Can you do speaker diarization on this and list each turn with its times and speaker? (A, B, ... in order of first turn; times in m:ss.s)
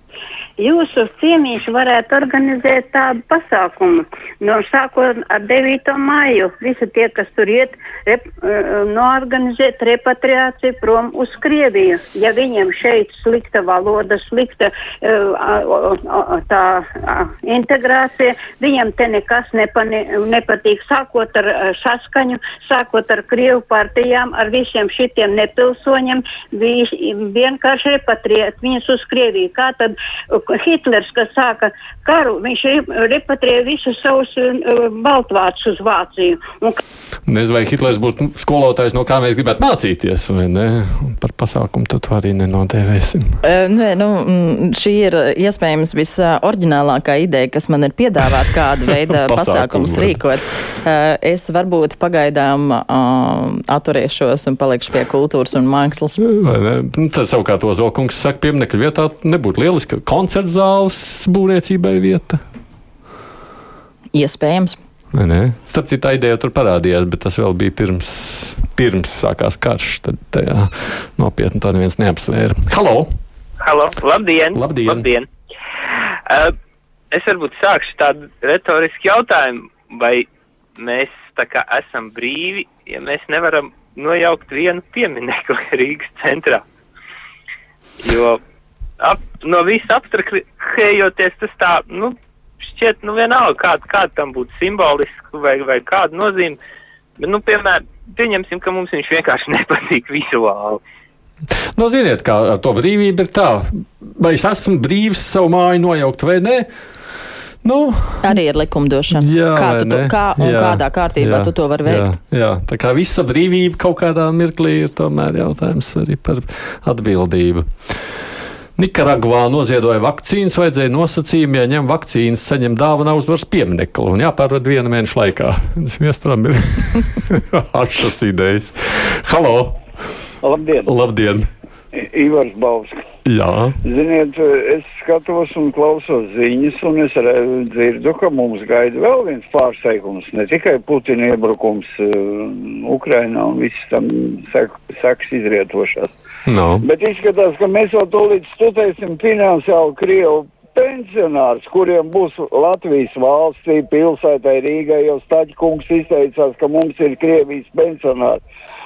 0:00.6-0:36.8 A
0:37.3-0:43.4 B
0:43.4-0:56.2 C
0:49.1-0:50.2 B
0:56.2-1:02.4 B
1:04.1-1:04.8 C
1:05.1-1:13.1 B
1:13.6-1:15.3 D
1:14.5-1:15.1 B
1:16.3-1:16.5 D
1:17.1-1:20.3 D
1:20.8-1:26.6 D
1:28.0-1:28.4 D
1:29.0-1:36.6 D
1:37.2-1:40.8 D
1:41.6-1:46.7 B
1:47.6-1:48.4 B
1:48.2-1:52.1 C
1:49.1-1:58.0 B
1:58.8-2:09.8 B
2:10.4-2:10.9 E
2:10.8-2:11.5 B
2:12.0-2:13.0 E
2:13.2-2:13.8 B
2:13.8-2:26.2 E
2:26.5-2:26.9 B
2:26.8-2:38.4 E